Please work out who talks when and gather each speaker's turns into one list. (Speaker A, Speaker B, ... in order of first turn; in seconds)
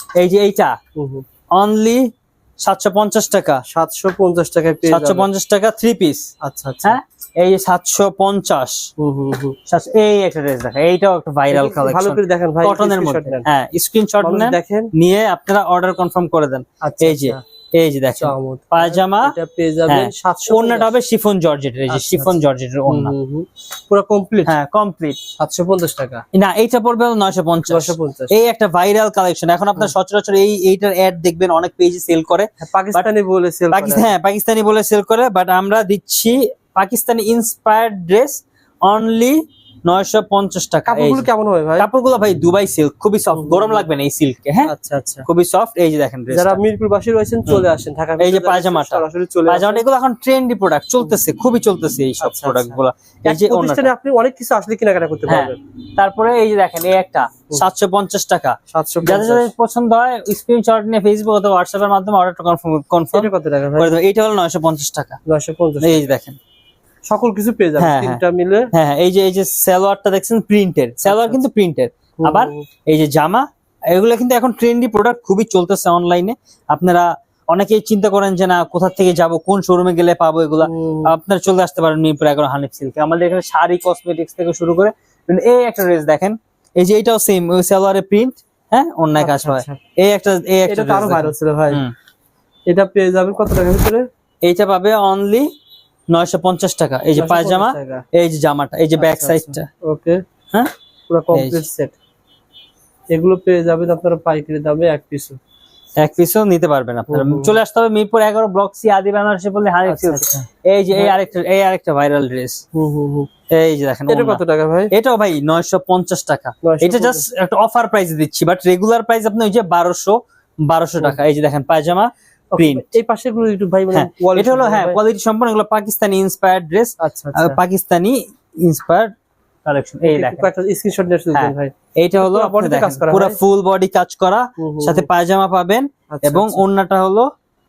Speaker A: 0.2-0.8, 1.6-3.6, 4.9-6.3, 6.8-8.9, 9.7-19.4, 19.9-23.1, 24.5-25.2, 26.3-33.1, 33.7-41.3, 41.8-44.7, 45.3-46.6, 48.2-53.9, 55.3-65.2, 65.8-66.4, 67.8-68.2, 68.7-91.9, 94.4-95.5, 96.1-99.7, 101.3-101.6, 106.0-112.6, 113.5-122.8, 123.9-129.1, 129.7-130.5, 131.3-137.3
Speaker B: 1.0-1.2, 3.7-5.3, 6.4-7.0, 9.0-9.6, 11.5-13.5, 14.2-14.9, 16.8-17.4, 18.2-20.9, 21.9-22.4, 22.9-24.5, 25.4-26.2, 27.7-28.3, 32.6-34.1, 40.9-41.9, 43.3-43.9, 44.6-45.3, 46.3-49.9, 52.2-55.6, 58.7-59.5, 63.1-63.9, 65.3-66.0, 67.1-68.7, 71.0-71.4, 72.2-72.7, 80.6-81.1, 89.2-89.8, 90.7-91.8, 92.7-94.1, 97.1-98.0, 99.0-100.2, 101.1-102.0, 103.1-105.4, 107.1-107.6, 109.9-111.2, 112.7-113.3, 114.1-114.9, 116.6-117.2, 122.5-125.0, 127.0-127.6, 130.1-133.4, 134.6-135.1, 136.1-136.6